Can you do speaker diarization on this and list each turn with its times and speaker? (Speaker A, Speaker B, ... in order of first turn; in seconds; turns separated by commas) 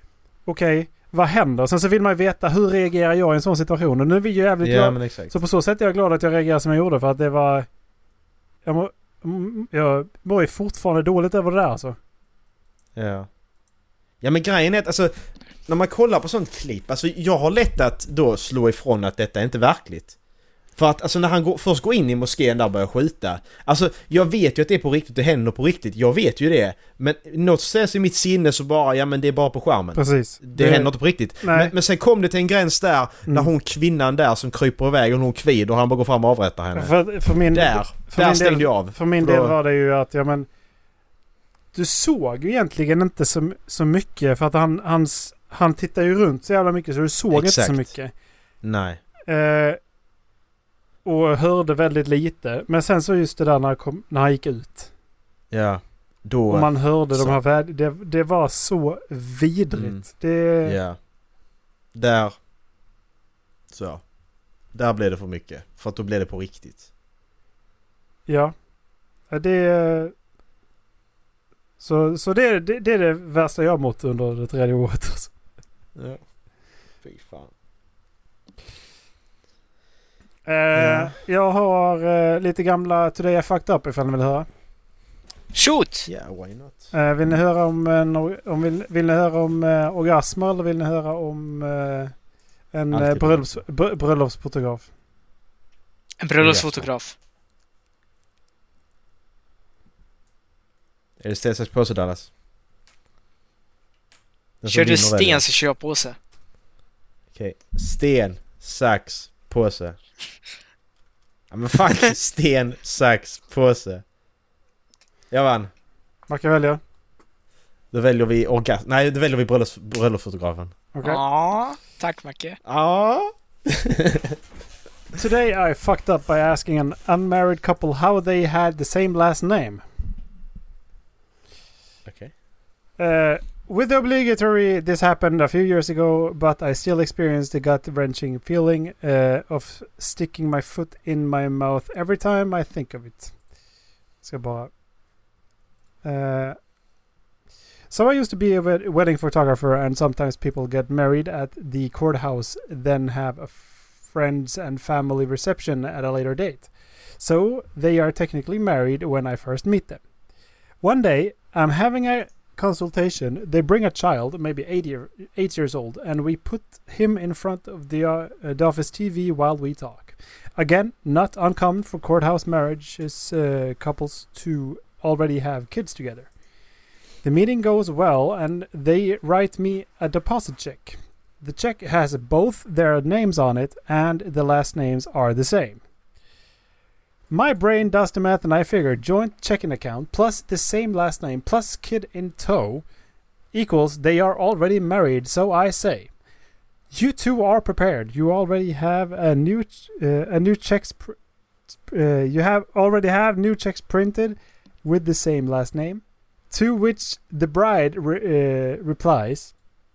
Speaker A: 0.5-7.7, Speaker B: 4.6-5.4, Speaker A: 8.7-12.0, Speaker B: 13.0-13.3, Speaker B: 14.2-15.1, Speaker B: 15.7-20.1, Speaker B: 20.8-37.0, Speaker A: 29.9-31.7, Speaker A: 36.8-40.5, Speaker B: 37.5-39.5, Speaker A: 41.7-48.1, Speaker B: 47.3-47.9, Speaker B: 48.6-49.0, Speaker A: 49.3-49.8, Speaker A: 51.0-54.9, Speaker B: 55.5-57.4, Speaker A: 56.5-60.8, Speaker B: 59.7-60.1, Speaker B: 60.6-61.0, Speaker B: 62.0-62.4, Speaker B: 63.7-64.0, Speaker B: 64.7-66.9, Speaker A: 68.3-68.5, Speaker A: 69.3-70.1, Speaker A: 71.8-75.3, Speaker B: 76.0-76.2, Speaker B: 77.0-77.5, Speaker A: 80.5-84.5, Speaker B: 80.8-81.2, Speaker C: 85.5-86.1, Speaker B: 86.1-86.9, Speaker A: 86.9-92.1, Speaker A: 92.7-94.9, Speaker B: 92.9-93.6, Speaker C: 96.2-97.1, Speaker B: 96.4-96.9, Speaker B: 101.2-102.3, Speaker B: 104.6-105.4, Speaker C: 104.7-106.2, Speaker B: 107.3-110.0, Speaker B: 111.5-114.0, Speaker B: 115.3-115.7, Speaker A: 116.3-116.8, Speaker B: 117.9-120.8, Speaker A: 120.9-121.2, Speaker C: 121.0-122.6, Speaker B: 122.7-124.4, Speaker A: 125.2-129.8, Speaker B: 132.1-132.3, Speaker A: 133.0-143.3, Speaker A: 144.2-144.7, Speaker A: 146.0-146.6, Speaker A: 147.9-160.0, Speaker A: 160.8-176.3, Speaker A: 177.2-185.8, Speaker A: 187.3-192.8, Speaker A: 193.5-196.1, Speaker A: 196.9-201.2, Speaker A: 201.9-209.5